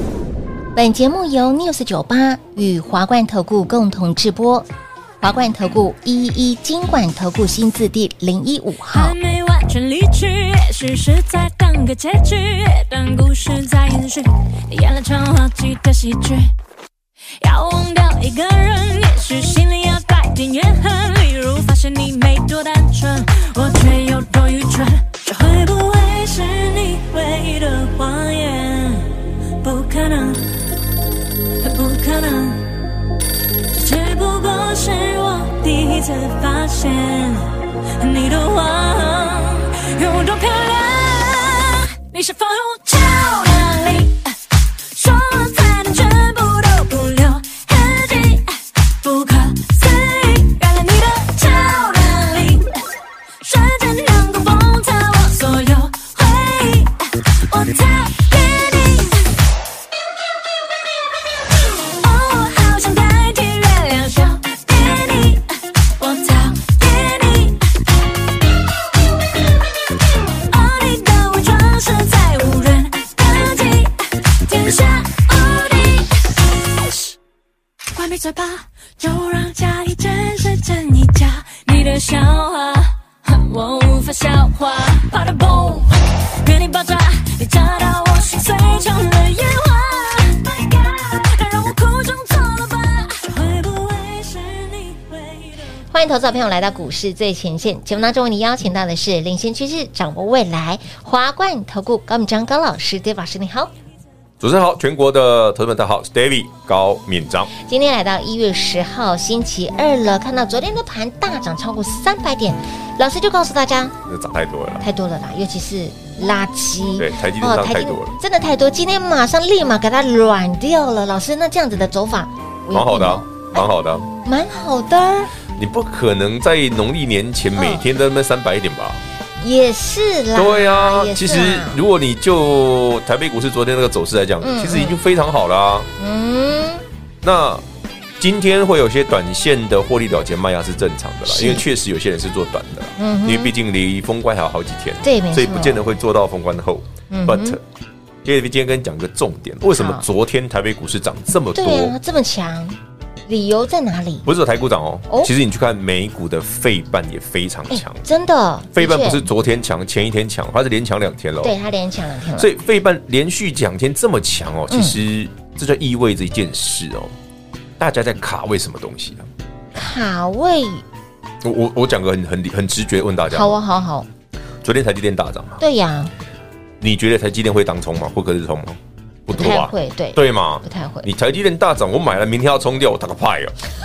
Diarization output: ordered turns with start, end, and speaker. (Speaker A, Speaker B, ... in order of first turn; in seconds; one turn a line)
Speaker A: 0.7-4.7
Speaker A: 5.2-9.1
Speaker B: 8.9-16.5
Speaker B: 17.4-30.5
Speaker B: 31.6-32.7
Speaker B: 33.7-44.3
Speaker B: 44.9-52.8
Speaker B: 53.4-59.3
Speaker B: 61.9-67.8
Speaker B: 70.5-77.1
Speaker B: 77.9-95.7
Speaker A: 95.9-103.7
Speaker C: 104.4-107.5
Speaker A: 107.5-113.9
Speaker C: 114.1-114.8
Speaker A: 114.8-123.7
Speaker C: 117.0-118.1
Speaker C: 122.7-124.1
Speaker A: 124.2-125.3
Speaker C: 125.5-129.0
Speaker A: 127.6-127.8
Speaker A: 129.4-131.8
Speaker C: 130.3-135.9
Speaker A: 134.4-135.0
Speaker A: 136.0-136.8
Speaker C: 137.2-137.6
Speaker C: 138.2-147.6
Speaker A: 141.2-141.7
Speaker A: 143.0-143.5
Speaker A: 145.0-145.8
Speaker A: 147.1-147.6
Speaker C: 148.2-151.9
Speaker A: 149.7-150.1
Speaker A: 151.5-154.3
Speaker C: 154.2-158.0
Speaker A: 157.7-159.3
Speaker C: 158.7-161.5
Speaker A: 161.4-162.5
Speaker C: 162.4-167.1
Speaker A: 164.7-165.0
Speaker C: 167.8-169.3
Speaker A: 169.7-170.8
Speaker C: 171.4-173.6
Speaker A: 173.3-174.1
Speaker C: 174.6-175.6
Speaker A: 175.6-176.1
Speaker C: 176.8-183.5
Speaker A: 179.3-181.1